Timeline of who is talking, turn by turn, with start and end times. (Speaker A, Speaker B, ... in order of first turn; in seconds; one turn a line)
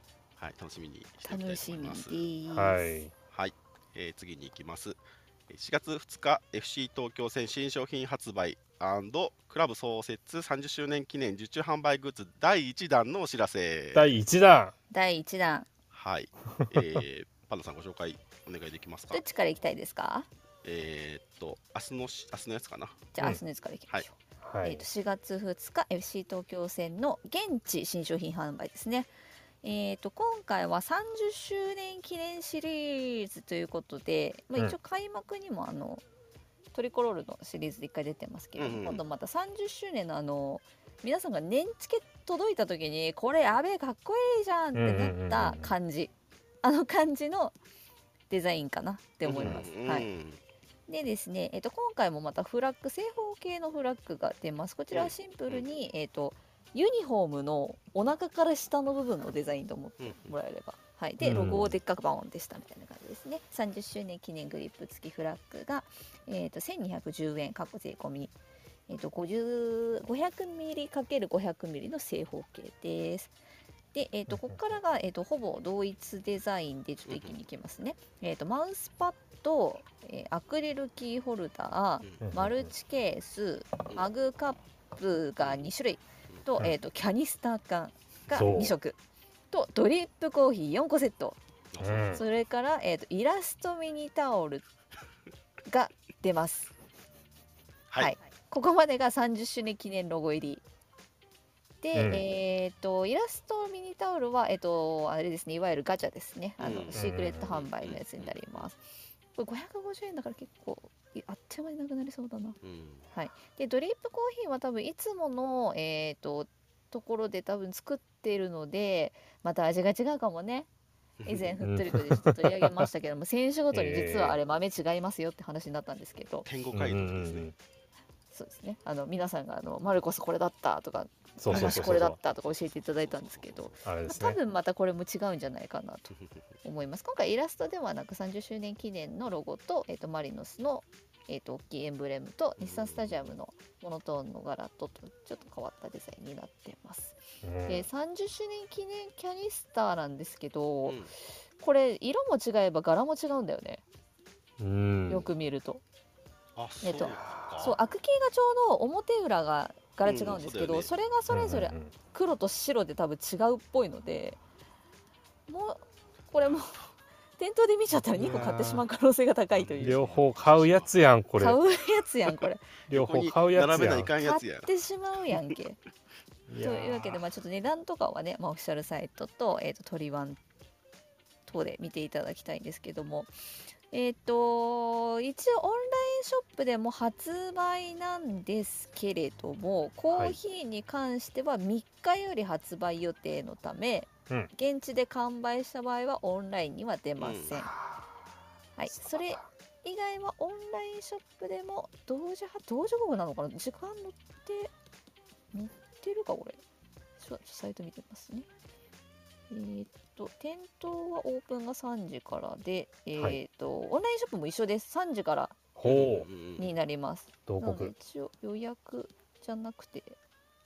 Speaker A: 0.4-2.3
Speaker B: 1.2-3.0
Speaker C: 2.5-3.1
Speaker A: 3.3-14.1
Speaker C: 13.9-14.8
Speaker B: 14.9-15.7
Speaker A: 15.9-19.2
Speaker C: 16.6-17.0
Speaker B: 19.1-20.3
Speaker A: 20.6-23.1
Speaker B: 23.1-29.1
Speaker C: 24.4-24.9
Speaker B: 29.6-36.0
Speaker B: 36.7-47.6
Speaker A: 38.6-39.0
Speaker C: 44.7-45.7
Speaker B: 48.3-50.1
Speaker A: 49.2-50.4
Speaker B: 50.9-68.3
Speaker A: 54.9-55.6
Speaker A: 60.0-60.4
Speaker C: 61.2-61.7
Speaker B: 68.9-73.3
Speaker B: 73.9-89.0
Speaker C: 74.3-74.6
Speaker A: 77.1-77.3
Speaker C: 82.2-82.7
Speaker C: 88.3-88.8
Speaker B: 89.5-91.4
Speaker A: 91.7-92.2
Speaker C: 91.8-92.2
Speaker B: 92.1-94.7
Speaker B: 95.7-96.7
Speaker B: 98.0-100.7
Speaker B: 101.8-108.8
Speaker C: 102.0-102.2
Speaker A: 106.6-108.7
Speaker C: 106.9-107.5
Speaker B: 109.3-112.6
Speaker A: 112.6-113.1
Speaker B: 113.1-120.7
Speaker A: 121.2-121.5
Speaker B: 121.3-126.5
Speaker C: 121.6-122.9
Speaker C: 123.7-124.4
Speaker A: 126.5-127.5
Speaker C: 126.7-127.5
Speaker B: 128.3-136.1
Speaker C: 131.4-132.2
Speaker A: 131.5-133.9
Speaker C: 133.8-134.4
Speaker A: 136.1-136.4
Speaker B: 136.6-151.0
Speaker A: 142.6-143.3
Speaker C: 147.4-147.9
Speaker A: 150.8-151.1
Speaker B: 151.6-153.8
Speaker C: 154.6-155.3
Speaker B: 155.1-155.8
Speaker A: 156.6-157.8
Speaker B: 156.8-164.4
Speaker C: 157.2-157.8
Speaker A: 160.0-160.9
Speaker C: 161.3-161.9
Speaker B: 165.5-166.7
Speaker A: 166.4-166.9
Speaker B: 167.4-170.1
Speaker C: 168.2-168.8
Speaker A: 168.2-168.7
Speaker A: 169.5-170.9
Speaker C: 169.8-171.6
Speaker B: 171.4-172.7
Speaker A: 172.9-174.7
Speaker C: 172.9-174.1
Speaker B: 174.2-175.8
Speaker C: 176.5-177.2
Speaker B: 176.6-180.4
Speaker B: 181.5-183.3
Speaker B: 183.9-197.7
Speaker C: 190.1-190.4
Speaker A: 197.2-197.5
Speaker C: 197.6-198.2
Speaker B: 198.8-204.7
Speaker C: 198.9-199.5
Speaker B: 205.5-206.6
Speaker B: 207.2-208.5
Speaker B: 209.5-215.6
Speaker C: 215.8-216.3
Speaker A: 215.8-216.7
Speaker B: 216.6-220.2
Speaker C: 217.5-217.9